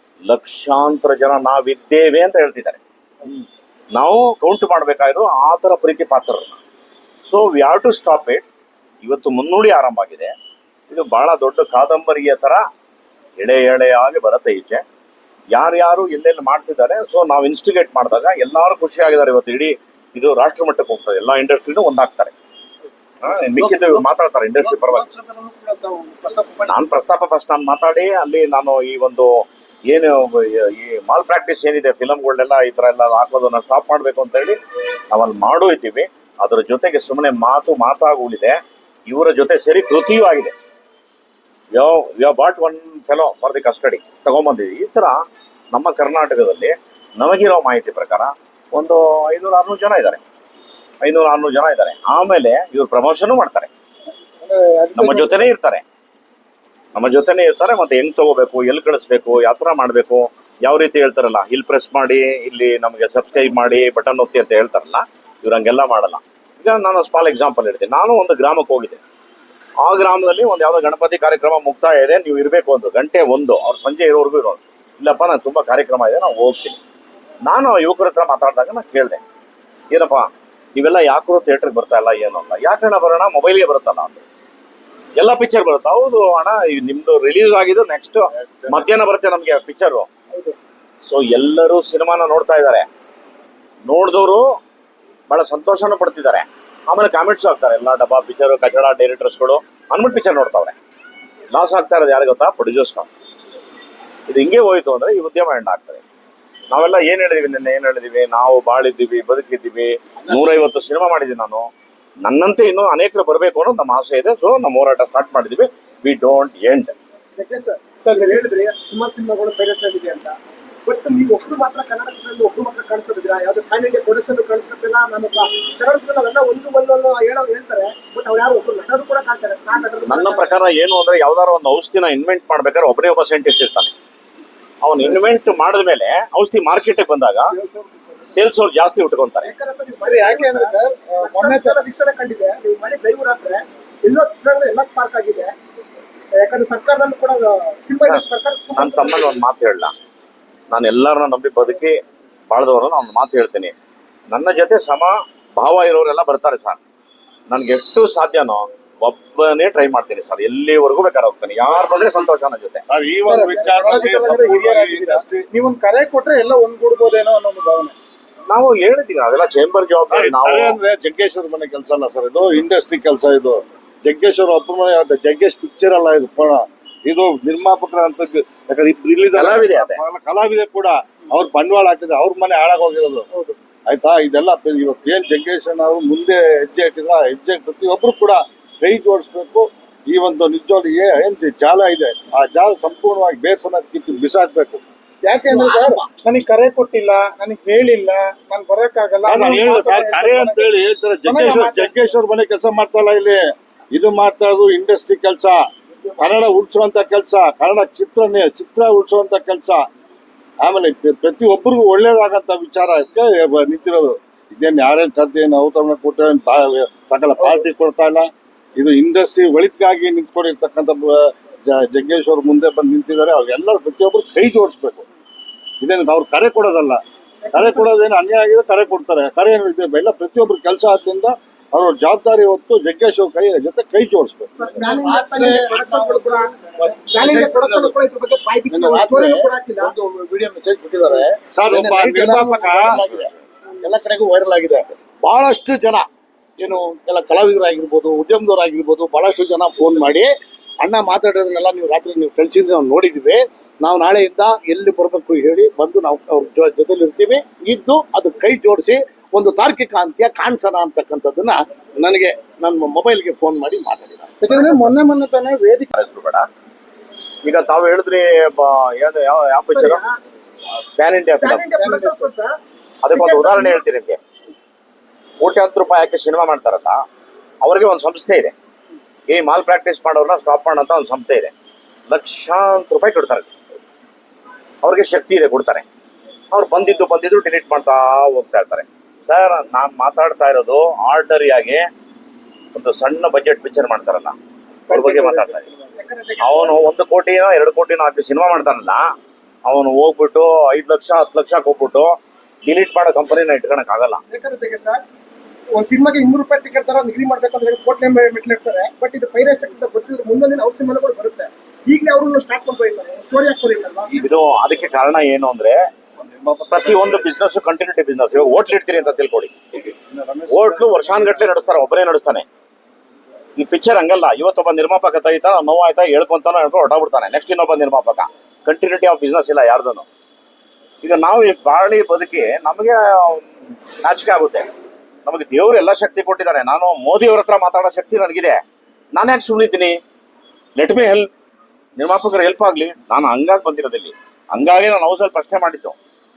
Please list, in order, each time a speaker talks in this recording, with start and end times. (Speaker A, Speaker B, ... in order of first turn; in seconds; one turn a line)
Speaker A: 0.3-6.6
Speaker A: 7.2-8.4
Speaker A: 9.0-10.3
Speaker A: 10.9-12.7
Speaker A: 13.4-14.8
Speaker A: 15.5-22.3
Speaker A: 23.2-25.1
Speaker B: 23.3-24.1
Speaker B: 24.6-26.8
Speaker A: 26.7-34.6
Speaker A: 35.1-40.5
Speaker A: 41.7-45.2
Speaker A: 45.7-50.2
Speaker A: 51.0-53.7
Speaker B: 54.4-55.6
Speaker A: 55.0-55.8
Speaker A: 57.0-69.0
Speaker A: 69.8-76.8
Speaker A: 77.5-79.2
Speaker A: 79.9-84.2
Speaker A: 85.2-90.1
Speaker C: 88.3-88.9
Speaker A: 91.1-92.9
Speaker A: 93.9-94.5
Speaker A: 95.3-100.8
Speaker A: 101.5-103.1
Speaker A: 104.3-106.0
Speaker A: 106.7-111.7
Speaker A: 112.2-116.9
Speaker D: 117.4-130.6
Speaker B: 118.0-118.5
Speaker A: 130.1-133.9
Speaker A: 134.8-137.5
Speaker B: 137.4-138.2
Speaker A: 138.3-139.5
Speaker D: 139.4-145.5
Speaker B: 140.0-141.8
Speaker D: 146.4-149.4
Speaker A: 148.8-149.9
Speaker A: 150.7-152.0
Speaker A: 152.5-153.7
Speaker A: 154.3-156.8
Speaker A: 157.5-162.8
Speaker C: 162.9-165.5
Speaker B: 163.2-167.9
Speaker A: 168.5-170.8
Speaker C: 170.1-183.3
Speaker A: 179.3-180.0
Speaker C: 183.9-194.8
Speaker B: 195.2-202.1
Speaker C: 199.2-205.6
Speaker C: 206.2-209.9
Speaker C: 210.6-225.1
Speaker C: 225.8-227.0
Speaker D: 227.5-227.9
Speaker C: 227.5-234.5
Speaker D: 234.6-239.9
Speaker B: 234.7-236.4
Speaker E: 234.8-236.1
Speaker E: 236.9-237.9
Speaker E: 238.7-243.3
Speaker C: 241.5-243.0
Speaker E: 243.8-246.1
Speaker E: 246.6-264.4
Speaker B: 264.4-265.9
Speaker A: 265.9-266.5
Speaker A: 267.4-270.0
Speaker D: 269.7-270.2
Speaker A: 271.0-271.7
Speaker D: 271.4-272.6
Speaker B: 271.8-272.2
Speaker A: 273.0-274.2
Speaker D: 273.1-273.8
Speaker A: 275.4-277.0
Speaker A: 277.6-278.5
Speaker A: 279.3-281.5
Speaker A: 282.1-283.5
Speaker A: 284.8-285.8
Speaker A: 286.5-291.9
Speaker A: 292.7-294.4
Speaker A: 294.9-295.7
Speaker B: 294.9-295.8
Speaker D: 296.0-296.9
Speaker A: 296.4-299.1
Speaker A: 299.6-304.2
Speaker D: 304.3-305.0
Speaker D: 305.7-314.3
Speaker A: 314.1-315.8
Speaker C: 316.2-317.3
Speaker A: 316.7-319.6
Speaker C: 319.8-321.7
Speaker A: 320.5-322.5
Speaker A: 323.6-330.1
Speaker A: 331.0-333.5
Speaker A: 334.0-334.7
Speaker A: 335.2-338.6
Speaker A: 339.1-340.0
Speaker A: 340.8-341.3
Speaker A: 342.0-346.0